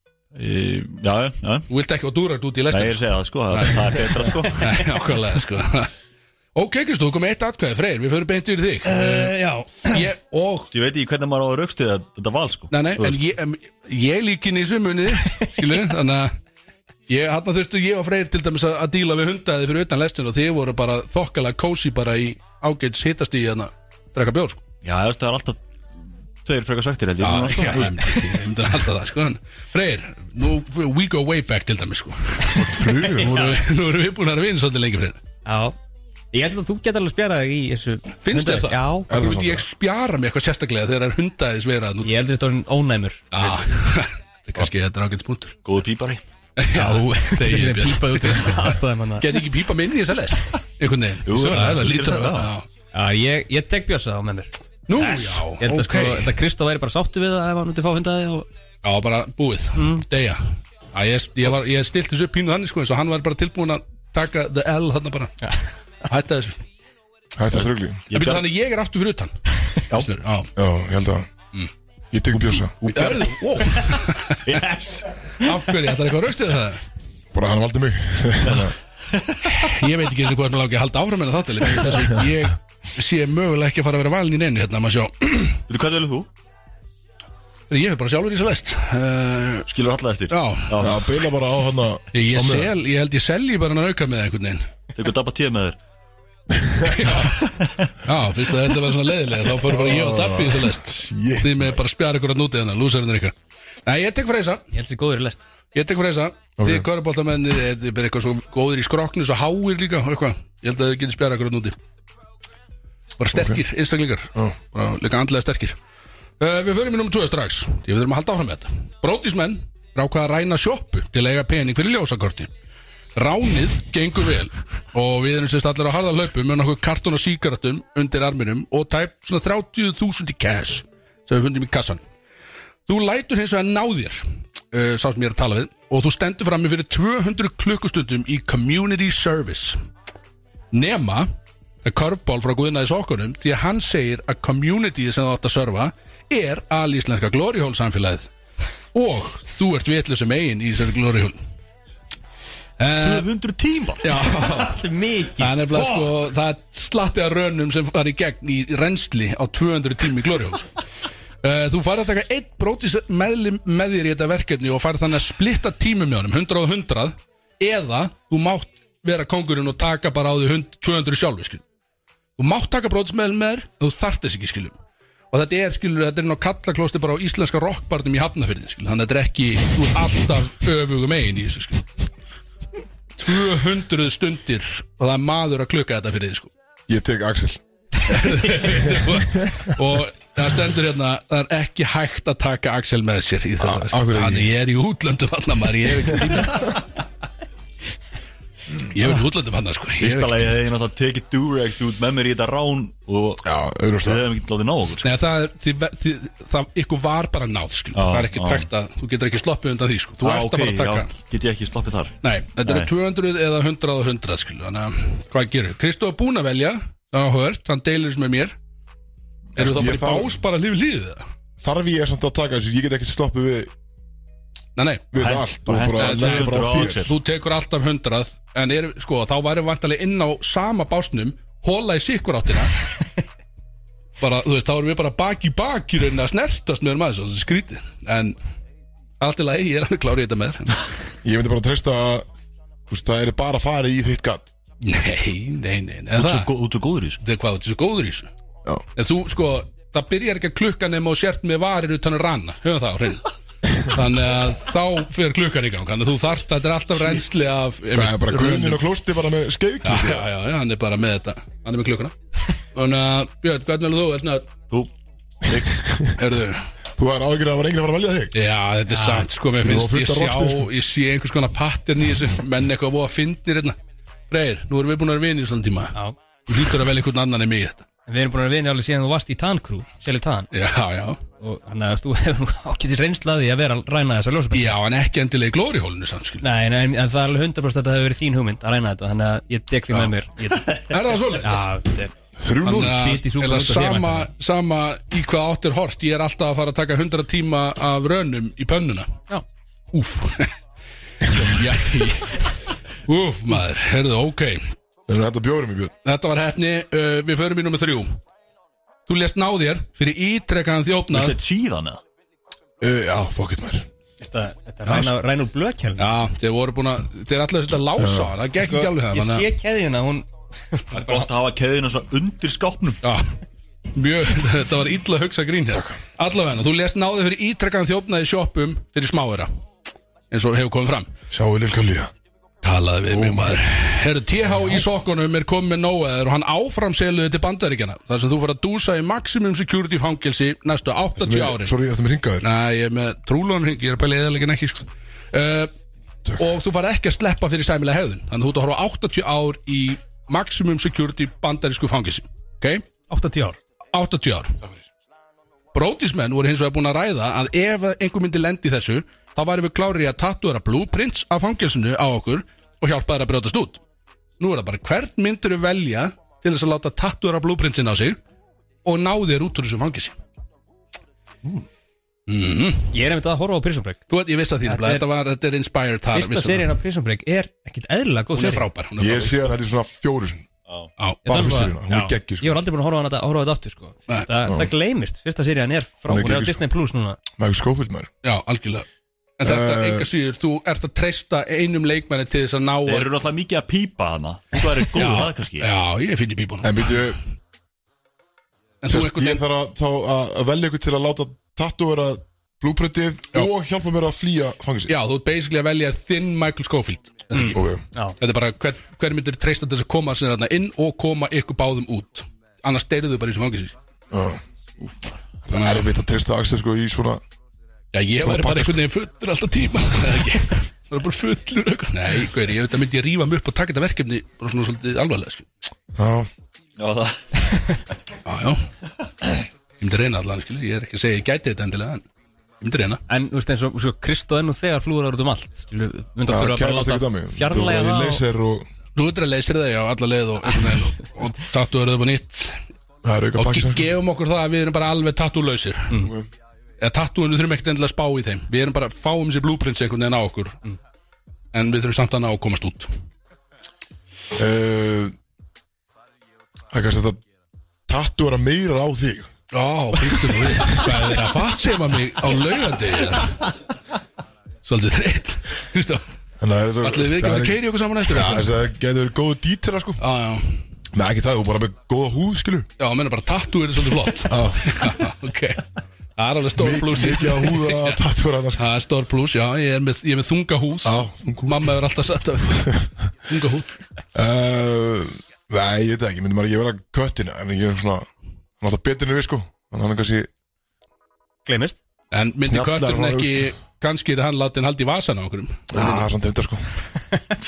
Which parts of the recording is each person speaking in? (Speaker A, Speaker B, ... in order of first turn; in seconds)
Speaker A: 0.3-1.7, 2.7-4.7, 10.7-13.2, 24.8-25.6, 26.4-28.2, 45.6-46.2, 51.2-52.5, 67.5-68.5, 72.5-73.4, 74.4-75.1, 78.4-79.5, 85.7-86.3, 89.7-91.0, 94.9-95.8, 97.4-97.9, 153.0-154.2, 200.0-203.5, 204.0-205.1, 207.9-208.7, 210.2-212.9, 225.1-227.1, 246.2-247.2, 265.4-265.8, 311.1-312.0, 320.9-323.0, 392.9-395.7, 426.8-427.2
Speaker B: 1.7-5.9, 6.5-10.7, 12.7-16.3, 17.1-24.6, 27.2-35.2, 38.2-42.1, 43.3-45.5, 46.6-52.6, 54.9-56.3, 58.8-65.3, 66.1-66.6, 68.1-70.5, 72.8-74.6, 75.4-76.8, 79.4-85.6, 87.7-89.7, 90.3-90.7, 92.1-94.7, 96.8-97.4, 98.0-103.3, 103.8-104.6, 105.7-111.8, 113.2-115.8, 116.4-122.5, 123.2-132.0, 132.9-139.8, 140.7-141.3, 141.8-148.3, 148.9-151.4, 152.8-153.3, 154.0-154.8, 155.4-160.7, 161.4-171.6, 172.4-174.8, 175.3-181.8, 183.2-186.5, 188.1-196.8, 198.9-200.5, 205.0-211.1, 212.2-218.5, 219.6-221.2, 224.8-225.1, 225.9-232.8, 234.2-238.3, 239.2-240.8, 244.8-246.5, 247.2-248.3, 248.9-253.3, 253.8-258.8, 259.8-262.1, 262.7-264.5, 266.1-266.7, 268.3-273.8, 274.3-275.9, 276.5-277.8, 280.5-281.2, 284.5-286.4, 290.9-291.6, 292.6-299.2, 299.9-300.5, 301.3-302.5, 303.1-304.7, 306.0-308.1, 309.1-311.4, 314.9-315.1, 316.0-319.5, 323.0-323.4, 323.9-329.5, 330.3-331.1, 332.6-341.7, 342.4-345.7, 346.4-352.8, 353.9-354.6, 355.7-363.8, 364.4-368.2, 368.8-370.1, 372.3-372.9, 374.1-376.8, 378.3-379.5, 381.0-381.6, 388.2-388.9, 389.4-393.1, 394.9-397.0, 398.8-399.4, 404.9-407.6, 408.2-413.8, 415.5-415.9, 417.9-425.4, 428.2-428.7, 429.8-432.0, 432.6-433.0, 438.9-442.6, 443.4-446.0, 446.8-450.6, 451.5-452.9, 459.5-463.4, 464.6-466.0, 466.8-468.5, 470.0-470.6, 472.8-475.6, 476.2-478.0, 478.6-483.7, 492.1-496.1
Speaker C: 8.8-10.0, 33.2-33.6, 35.4-35.8, 36.3-39.2, 42.0-43.6, 46.7-49.4, 51.3-51.8, 52.9-58.5, 59.8-60.0, 104.7-105.4, 154.2-156.1, 268.9-269.3, 278.1-280.5, 281.4-284.8, 286.4-292.1, 292.6-294.3, 314.2-316.1, 318.6-321.3, 353.1-353.6, 372.9-374.0, 374.6-375.0, 376.1-378.6, 381.2-387.2, 407.3-408.1, 433.1-438.2, 491.4-491.8
Speaker D: 32.5-33.4, 39.1-39.6, 67.3-68.0, 70.5-71.3, 72.1-72.7, 77.3-78.7, 90.8-92.7, 96.5-96.9, 99.6-101.8, 106.6-106.9, 113.3-113.6, 186.9-187.6, 188.7-189.7, 193.6-194.5, 203.4-204.2, 219.6-220.4, 221.6-223.7, 225.1-227.1, 241.2-242.2, 242.9-244.5, 257.9-260.2, 265.5-266.1, 267.0-268.3, 269.6-270.7, 292.4-293.1, 305.1-305.9, 312.8-313.9, 318.0-318.4, 325.7-326.0, 331.3-332.1, 333.1-333.6, 341.2-342.4, 379.0-380.5, 381.2-382.6, 384.4-384.7, 386.1-386.6, 387.4-388.1, 389.4-390.1, 396.6-397.2, 398.9-404.9, 407.5-407.8, 414.1-414.4, 415.5-417.2, 418.2-418.8, 425.9-426.3, 436.2-438.7, 443.0-443.9, 445.9-446.3, 454.3-455.1, 456.7-457.2, 457.9-459.3, 466.4-470.0, 470.9-472.7, 474.3-474.9, 476.5-478.6, 480.8-481.8, 484.1-488.1, 488.6-490.3, 492.4-493.5, 495.7-496.7